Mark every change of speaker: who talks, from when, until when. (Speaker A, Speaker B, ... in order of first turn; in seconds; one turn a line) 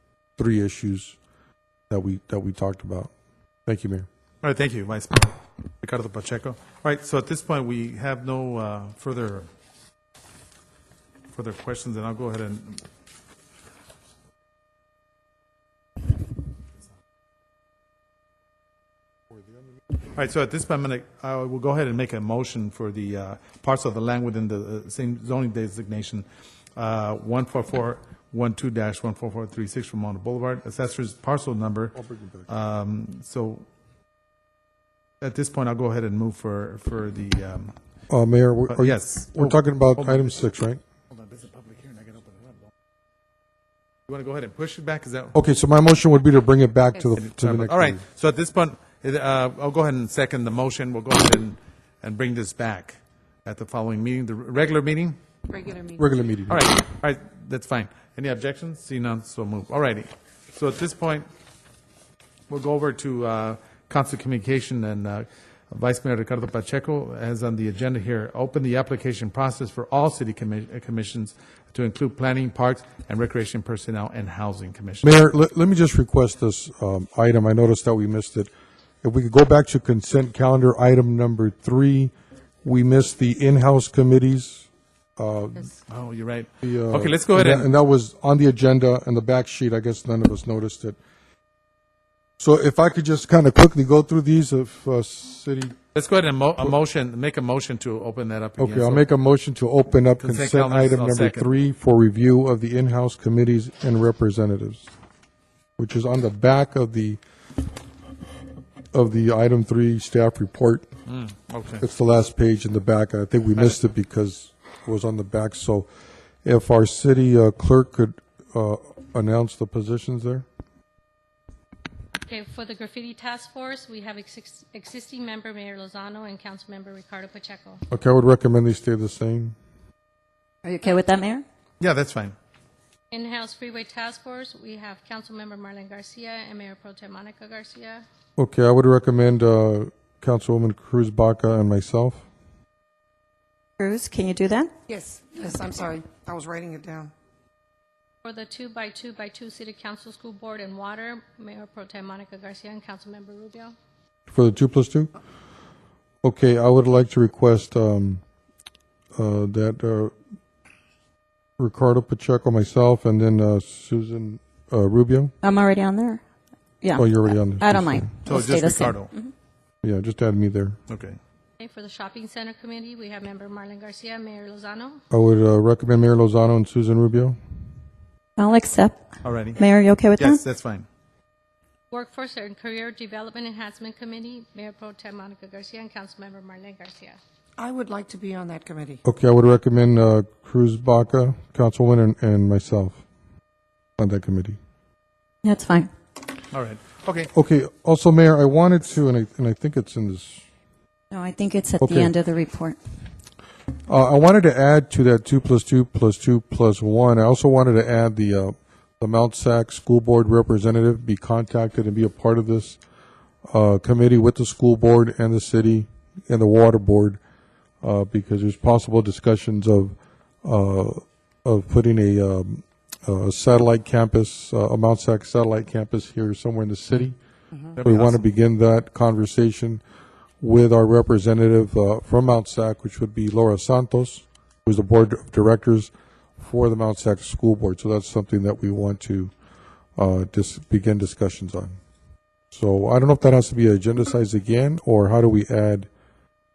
Speaker A: 0.4-1.1
Speaker A: 1.9-3.1
Speaker A: 3.6-4.1
Speaker B: 4.4-9.5
Speaker B: 11.3-12.8
Speaker B: 20.1-31.9
Speaker A: 31.9-32.5
Speaker B: 32.5-33.6
Speaker B: 35.2-37.7
Speaker A: 38.1-40.8
Speaker B: 38.7-40.3
Speaker B: 41.1-42.7
Speaker B: 44.1-45.4
Speaker A: 45.3-48.0
Speaker B: 47.1-55.2
Speaker C: 55.5-56.1
Speaker A: 56.0-56.7
Speaker B: 56.5-61.3
Speaker B: 62.5-75.2
Speaker A: 75.0-78.5
Speaker A: 79.0-82.1
Speaker A: 82.6-85.7
Speaker B: 85.9-87.7
Speaker A: 86.6-91.0
Speaker A: 92.4-95.8
Speaker B: 95.9-99.0
Speaker A: 98.6-104.9
Speaker B: 100.2-101.5
Speaker A: 105.8-107.2
Speaker A: 108.9-110.9
Speaker B: 111.0-111.8
Speaker A: 111.8-115.9
Speaker A: 116.4-120.4
Speaker D: 122.2-127.8
Speaker A: 127.9-129.6
Speaker E: 130.6-131.4
Speaker B: 131.8-132.3
Speaker D: 133.1-138.0
Speaker A: 138.4-142.2
Speaker E: 143.8-144.7
Speaker C: 144.9-147.1
Speaker D: 148.2-153.7
Speaker A: 154.3-155.1
Speaker A: 156.2-158.2
Speaker A: 159.1-160.1
Speaker A: 161.6-165.3
Speaker E: 165.4-166.2
Speaker E: 166.8-169.3
Speaker A: 167.0-168.1
Speaker B: 168.2-169.1
Speaker A: 169.8-170.8
Speaker B: 170.9-171.2
Speaker D: 171.6-175.0
Speaker A: 175.1-177.4
Speaker E: 178.4-180.4
Speaker B: 179.2-179.6
Speaker B: 180.2-180.8
Speaker D: 181.9-187.2
Speaker C: 187.6-189.0
Speaker A: 189.0-193.0
Speaker A: 194.0-194.6
Speaker E: 195.4-195.9
Speaker B: 196.5-197.3
Speaker A: 197.3-200.4
Speaker E: 201.1-202.8
Speaker A: 201.8-202.1
Speaker A: 203.9-212.8
Speaker A: 213.5-217.2
Speaker A: 217.8-227.2
Speaker B: 227.7-228.2
Speaker A: 227.8-229.8
Speaker A: 230.4-239.3
Speaker A: 240.0-241.7
Speaker A: 242.5-245.9